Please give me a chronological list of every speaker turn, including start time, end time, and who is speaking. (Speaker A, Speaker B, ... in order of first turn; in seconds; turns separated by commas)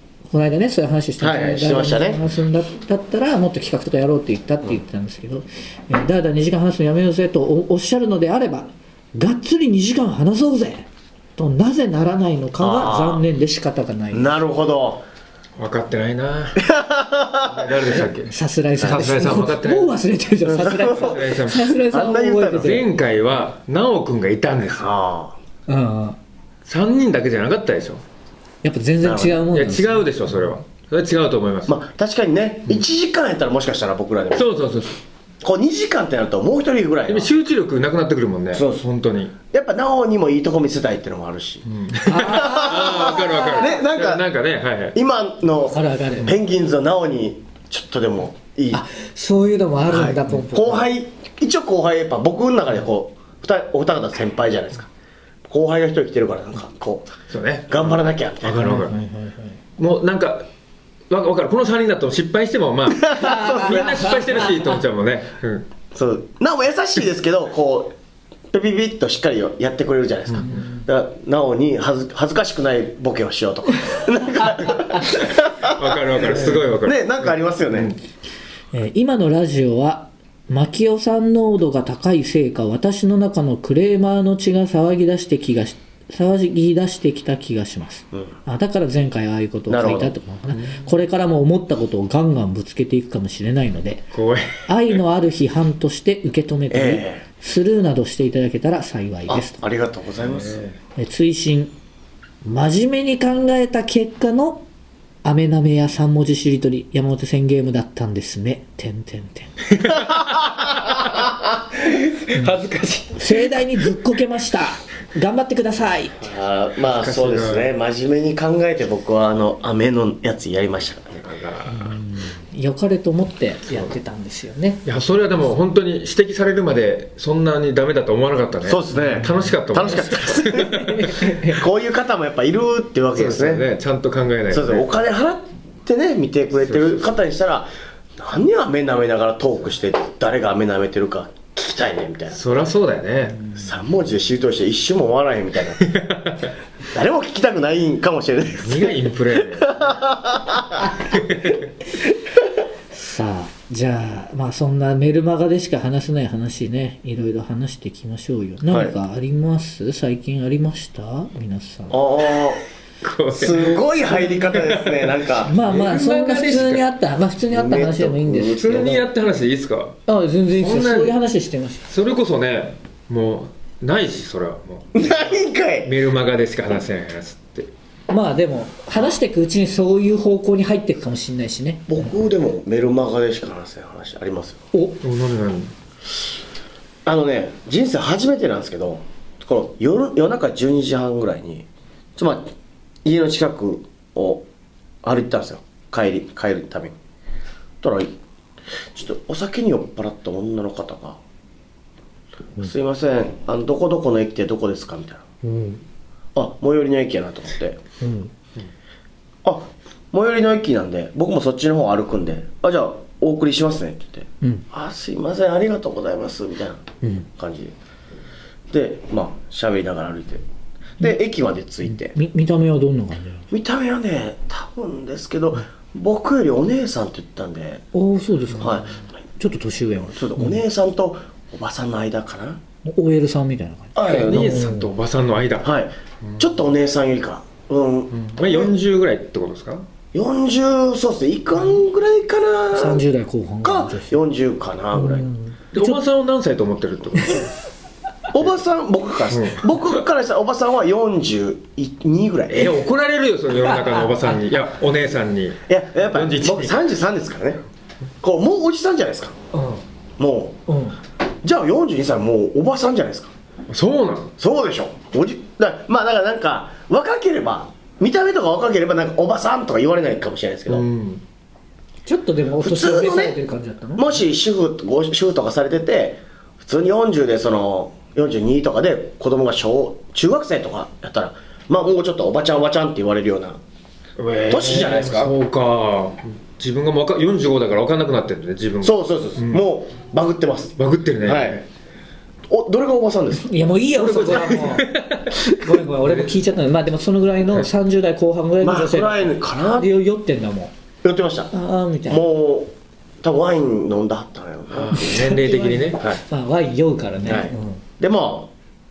Speaker A: 0.3-14.3, Speaker B: 1.2-2.2, Speaker B: 12.6-13.2, Speaker B: 14.1-15.1, Speaker C: 15.6-16.6, Speaker B: 16.6-18.0, Speaker C: 17.5-20.0, Speaker A: 18.3-22.9, Speaker B: 20.4-22.8, Speaker C: 20.9-21.7, Speaker C: 22.6-24.9, Speaker B: 24.6-25.4, Speaker A: 25.7-26.2, Speaker C: 26.6-28.0, Speaker A: 28.6-30.4, Speaker B: 29.0-29.5, Speaker C: 29.5-31.8, Speaker B: 31.7-34.5, Speaker C: 34.4-35.0, Speaker B: 35.4-37.3, Speaker C: 37.1-39.4, Speaker B: 38.5-38.9, Speaker B: 39.5-44.3, Speaker C: 41.7-45.0, Speaker A: 42.1-43.7, Speaker B: 44.9-48.8, Speaker A: 45.6-46.3, Speaker A: 48.7-50.9, Speaker B: 49.9-54.9, Speaker B: 55.5-57.1, Speaker C: 57.3-59.0, Speaker B: 57.7-58.7, Speaker A: 58.6-59.5, Speaker C: 59.8-60.5, Speaker C: 61.1-65.7, Speaker B: 63.0-64.5, Speaker A: 63.1-64.1, Speaker B: 65.9-68.0, Speaker B: 68.5-77.9, Speaker C: 70.3-70.6, Speaker C: 75.6-78.0, Speaker A: 78.7-94.1, Speaker B: 89.7-90.2, Speaker C: 90.5-90.8, Speaker C: 94.1-94.7, Speaker A: 94.7-99.6, Speaker B: 96.7-97.2, Speaker B: 99.3-100.7, Speaker C: 100.2-100.8, Speaker A: 101.0-101.7, Speaker A: 102.4-104.7, Speaker A: 105.2-109.7, Speaker C: 109.8-111.2, Speaker B: 110.2-110.4, Speaker C: 111.8-113.5, Speaker A: 113.2-116.3, Speaker B: 116.2-121.3, Speaker C: 116.9-117.7, Speaker C: 121.2-122.0, Speaker A: 121.7-124.8, Speaker C: 124.8-131.2, Speaker B: 128.6-133.7, Speaker A: 130.5-131.6, Speaker C: 133.2-134.9, Speaker B: 134.5-142.4, Speaker C: 136.6-137.1, Speaker C: 142.3-143.4, Speaker B: 143.5-145.9, Speaker C: 145.8-146.5, Speaker B: 146.9-151.1, Speaker C: 148.6-150.0, Speaker C: 151.1-151.6, Speaker A: 152.9-162.0, Speaker B: 158.7-158.9, Speaker B: 161.9-162.6, Speaker C: 163.0-166.8, Speaker B: 163.3-165.5, Speaker A: 165.5-168.8, Speaker B: 167.5-169.1, Speaker C: 168.6-170.0, Speaker A: 170.1-171.9, Speaker C: 170.6-171.2, Speaker C: 171.9-175.3, Speaker B: 174.9-175.9, Speaker C: 175.8-177.7, Speaker A: 178.1-181.9, Speaker B: 181.9-184.7, Speaker A: 184.7-185.0, Speaker C: 185.0-185.7, Speaker B: 187.1-192.5, Speaker B: 193.0-194.5, Speaker B: 195.0-197.0, Speaker B: 197.8-198.2, Speaker B: 198.9-201.2, Speaker B: 202.6-205.2, Speaker A: 205.4-205.8, Speaker B: 206.3-207.8, Speaker A: 208.0-208.3, Speaker B: 209.4-217.8, Speaker B: 218.7-220.4, Speaker B: 221.0-222.2, Speaker A: 221.9-223.5, Speaker B: 223.5-227.8, Speaker A: 227.9-230.5, Speaker B: 228.6-228.9, Speaker B: 230.1-232.6, Speaker A: 232.8-234.9, Speaker B: 233.9-234.7, Speaker C: 234.1-235.7, Speaker B: 235.6-238.7, Speaker C: 238.1-239.9, Speaker B: 240.1-243.1, Speaker A: 242.7-244.2, Speaker B: 243.6-245.2, Speaker A: 244.9-246.0, Speaker C: 245.7-247.5, Speaker B: 248.3-252.8, Speaker C: 249.3-249.8, Speaker C: 252.5-256.8, Speaker A: 253.7-254.3, Speaker B: 255.7-257.6, Speaker B: 258.2-259.4, Speaker A: 259.5-259.8, Speaker B: 260.2-260.6, Speaker A: 260.7-261.0, Speaker B: 261.4-263.3, Speaker C: 263.7-264.3, Speaker B: 264.4-270.9, Speaker C: 270.7-271.2, Speaker A: 272.1-274.2, Speaker B: 272.6-273.4, Speaker B: 274.0-283.6, Speaker C: 284.2-289.6, Speaker B: 284.5-285.4, Speaker B: 288.8-291.6, Speaker C: 290.8-291.6, Speaker B: 292.5-293.5, Speaker A: 293.4-300.7, Speaker C: 294.0-296.3, Speaker B: 298.6-299.9, Speaker B: 301.0-301.5, Speaker A: 301.5-302.2, Speaker B: 302.1-305.1, Speaker C: 304.7-306.1, Speaker A: 304.9-307.8, Speaker B: 307.2-308.5